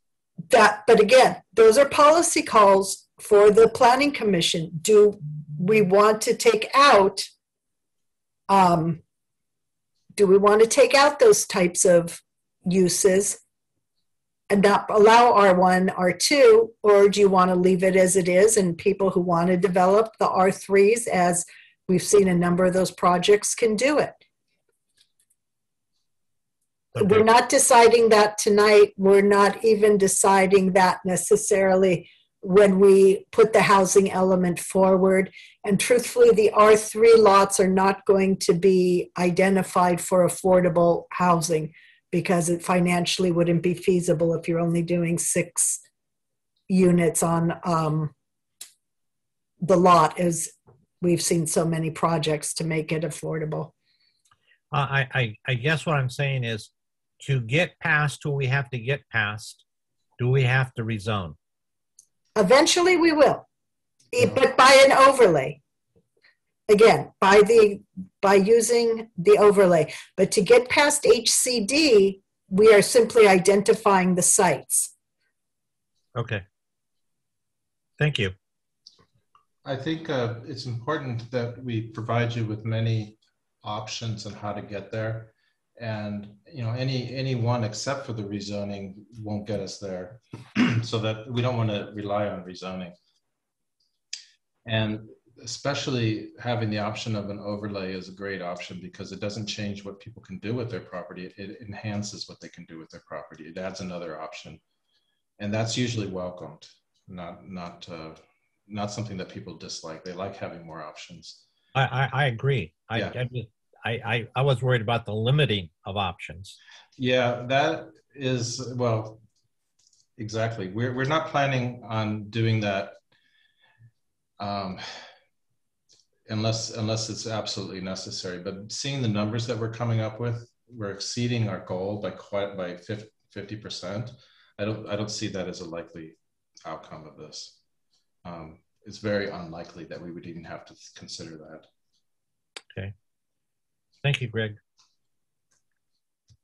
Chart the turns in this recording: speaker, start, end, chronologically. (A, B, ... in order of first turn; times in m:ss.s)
0:00.5-0:07.3 A
0:08.5-0:09.0 A
0:10.2-0:13.4 A
0:14.5-0:24.2 A
0:27.0-0:45.8 A
0:27.0-0:27.2 B
0:46.7-0:48.1 A
0:49.6-0:53.7 A
0:54.7-0:59.6 B
1:00.2-1:01.4 B
1:02.4-1:03.5 A
1:04.1-1:05.6 A
1:06.7-1:14.9 A
1:16.2-1:16.4 B
1:18.0-1:18.3 B
1:19.6-1:33.0 C
1:34.6-1:44.6 C
1:45.4-1:51.4 C
1:51.8-1:56.6 B
1:52.9-1:53.2 C
1:57.0-1:59.2 C
2:00.2-2:03.0 C
2:04.4-2:04.8 C
2:06.3-2:17.6 C
2:18.2-2:21.7 C
2:24.0-2:24.6 B